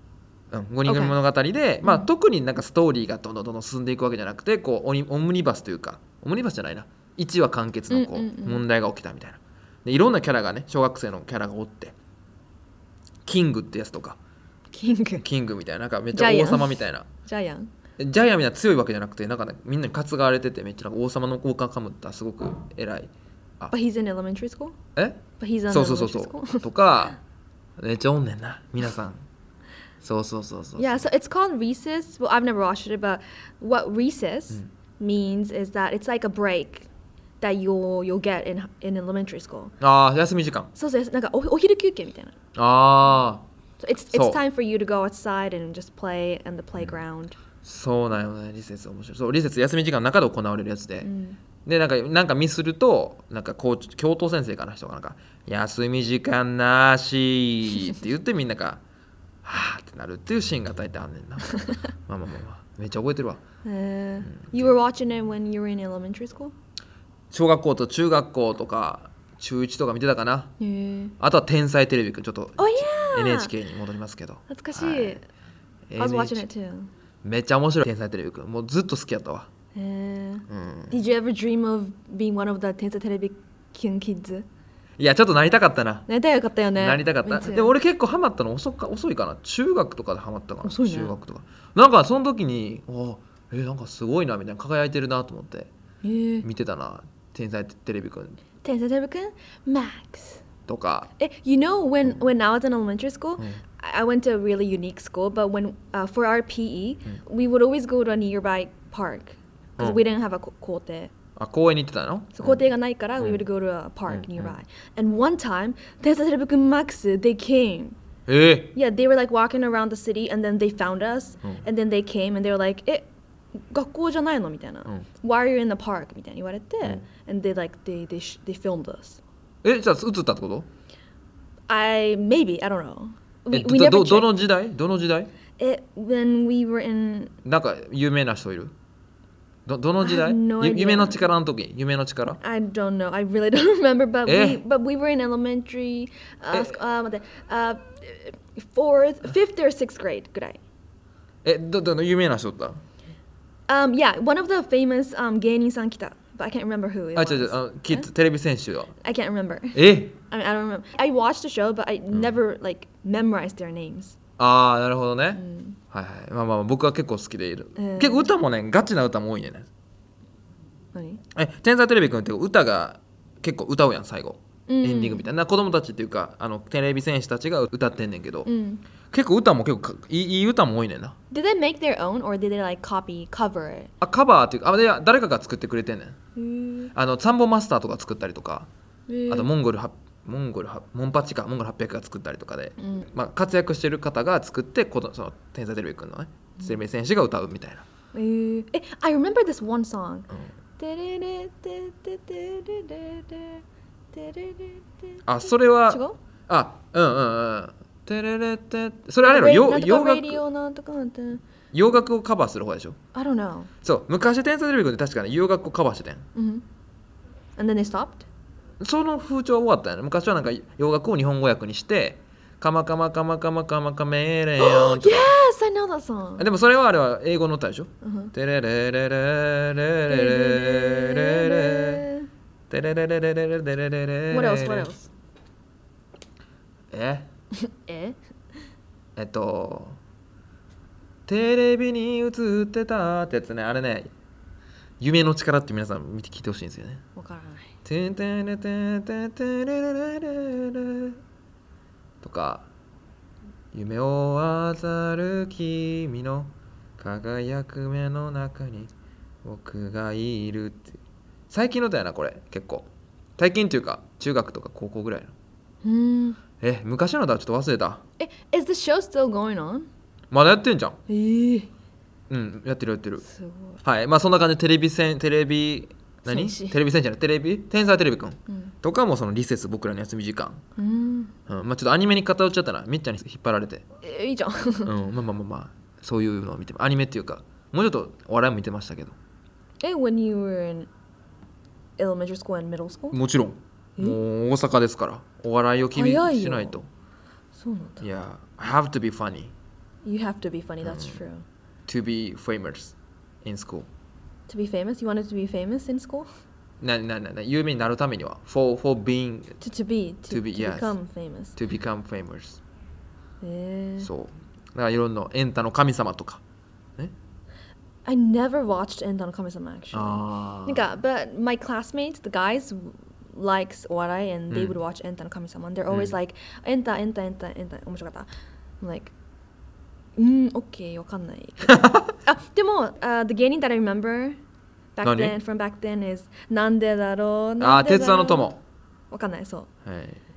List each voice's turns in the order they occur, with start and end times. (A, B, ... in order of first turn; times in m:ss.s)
0:00.5-0:12.0 A
0:00.8-0:01.2 B
0:07.9-0:08.6 B
0:13.3-0:14.2 A
0:14.7-0:15.2 B
0:15.2-0:17.1 A
0:16.1-0:17.7 B
0:18.0-0:23.7 A
0:23.7-0:24.8 B
0:25.0-0:27.2 A
0:25.4-0:26.7 B
0:27.8-0:29.2 A
0:30.0-0:31.0 A
0:30.8-0:36.9 B
0:37.4-0:39.7 B
0:39.8-0:40.7 A
0:40.8-0:42.4 B
0:42.6-0:43.5 A
0:43.8-0:47.4 B
0:44.1-0:44.4 A
0:47.6-0:51.1 A
0:51.0-0:51.4 B
0:51.6-0:58.8 A
0:59.4-1:03.4 A
1:03.6-1:06.5 B
1:04.4-1:04.7 A
1:07.3-1:10.5 A
1:10.6-1:11.1 B
1:11.2-1:15.2 A
1:12.6-1:13.5 B
1:14.5-1:15.2 B
1:15.9-1:16.4 A
1:16.0-1:16.9 B
1:17.2-1:19.5 A
1:19.7-1:24.5 B
1:20.5-1:21.0 A
1:25.0-1:26.1 A
1:26.1-1:27.7 B
1:26.8-1:35.7 A
1:30.6-1:31.1 B
1:36.0-1:36.5 B
1:36.4-1:38.4 A
1:38.6-1:40.4 B
1:40.7-1:41.1 A
1:41.2-1:51.1 B
1:51.4-1:52.7 A
1:52.4-1:58.0 B
1:54.1-1:54.6 A
1:58.3-1:58.7 A
1:58.7-2:03.1 B
2:03.7-2:09.2 B
2:09.6-2:10.7 A
2:11.7-2:14.4 B
2:13.5-2:15.3 A
2:15.6-2:17.3 B
2:17.4-2:18.7 A
2:19.7-2:22.4 A
2:20.0-2:21.2 B
2:22.4-2:30.6 B
2:24.3-2:24.6 A
2:26.5-2:26.8 A
2:31.4-2:32.8 A
2:33.7-2:38.1 B
2:37.2-2:38.9 A
2:39.0-2:44.2 B
2:39.7-2:40.2 A
2:44.4-2:49.7 A
2:45.4-2:45.8 B
2:47.8-2:48.3 B
2:50.9-2:51.2 B
2:51.4-2:58.5 A
2:54.7-2:55.3 B
2:58.5-2:58.8 B
2:59.1-3:01.2 A
3:01.3-3:03.9 B
3:04.0-3:06.2 A
3:06.4-3:06.9 B
3:06.9-3:08.7 A
3:09.1-3:09.5 B
3:09.3-3:17.8 A
3:12.8-3:13.1 B
3:18.1-3:26.2 B
3:25.3-3:30.4 A
3:29.2-3:31.4 B
3:31.7-3:33.0 A
3:33.1-3:33.7 B
3:33.8-3:36.2 A
3:36.4-3:36.6 B
3:37.6-3:38.3 B
3:38.8-3:45.4 A
3:44.6-3:46.5 B
3:46.4-3:52.0 A
3:48.0-3:48.3 B
3:50.1-3:52.3 B
3:52.7-3:54.9 A
3:54.3-3:55.1 B
3:56.9-3:57.3 A
3:57.6-3:58.2 B
3:59.2-4:00.0 A
4:01.3-4:04.1 A
4:05.0-4:07.0 A
4:07.2-4:07.7 B
4:07.8-4:11.2 A
4:12.2-4:12.7 A
4:13.7-4:18.9 A
4:19.4-4:21.0 A
4:21.5-4:25.3 A
4:25.8-4:26.4 B
4:26.6-4:28.0 A
4:28.2-4:29.9 B
4:30.3-4:31.0 A
4:31.1-4:31.7 B
4:32.3-4:33.2 A
4:33.2-4:33.8 B
4:33.8-4:40.6 A
4:36.3-4:36.8 B
4:40.8-4:41.3 B
4:41.5-4:43.8 A
4:44.0-4:44.9 B
4:44.9-4:49.2 A
4:49.8-4:50.9 B
4:52.0-4:53.2 B
4:53.1-4:56.9 A
4:55.9-4:56.8 B
4:57.6-4:58.0 B
4:58.0-4:59.5 A
5:00.0-5:01.4 B
5:00.8-5:01.2 A
5:01.9-5:03.9 A
5:04.5-5:06.3 B
5:06.8-5:09.6 A
5:09.6-5:11.6 B
5:10.3-5:11.0 A
5:11.6-5:12.6 A
5:13.4-5:14.1 B
5:14.0-5:16.4 A
5:18.1-5:28.3 B
5:19.9-5:20.9 A
5:24.5-5:24.8 A
5:25.9-5:26.2 A
5:28.8-5:29.1 B
5:30.2-5:34.4 B
5:31.6-5:32.1 A
5:35.0-5:38.6 B
5:35.0-5:35.4 A
5:37.6-5:38.6 A
5:39.1-5:39.7 B
5:39.8-5:40.2 A